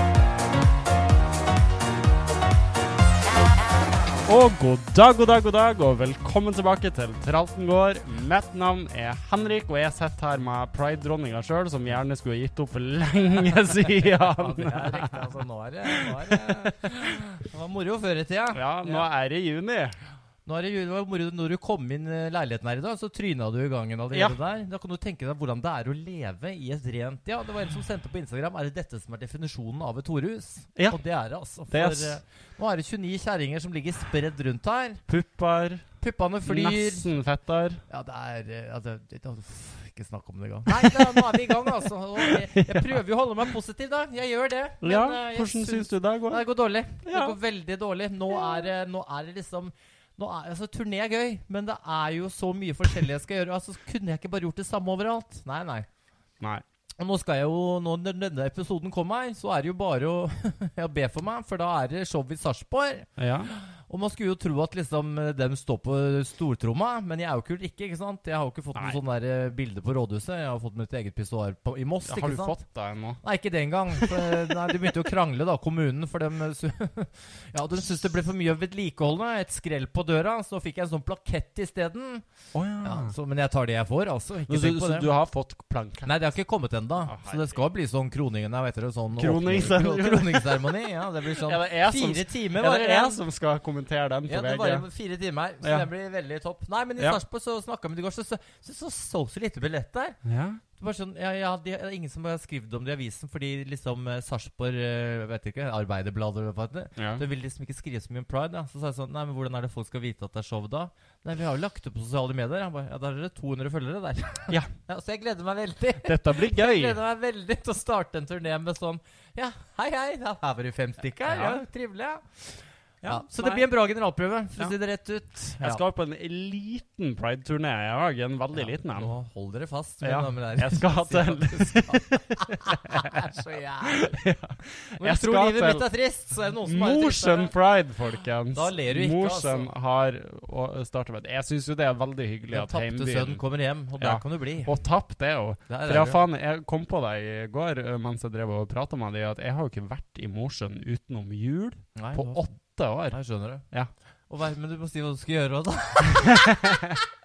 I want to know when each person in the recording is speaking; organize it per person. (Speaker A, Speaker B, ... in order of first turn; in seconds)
Speaker A: 4.2-17.2, 18.5-20.0, 31.7-32.2, 35.1-35.9, 36.5-37.8, 40.7-43.0, 44.8-46.4, 47.0-47.4, 63.2-63.5, 68.8-69.0, 72.0-73.2, 73.9-75.0, 82.5-83.1, 84.5-86.1, 87.1-87.5, 89.2-94.8, 95.6-95.9, 100.2-100.6, 107.0-107.2, 116.0-117.0, 121.3-121.6, 123.0-123.7, 125.6-129.1, 130.0-135.9, 136.6-143.4, 144.0-153.2, 156.1-157.1
Speaker B: 14.2-19.1, 20.5-35.0, 36.0-37.1, 37.9-55.9, 57.0-72.6, 73.2-82.2, 82.8-85.1, 86.0-93.2, 94.3-100.2, 100.8-125.8, 128.6-134.2, 135.0-137.5, 138.5-139.7, 142.5-144.7, 145.7-146.2, 152.0-152.4, 153.1-153.7, 154.3-156.5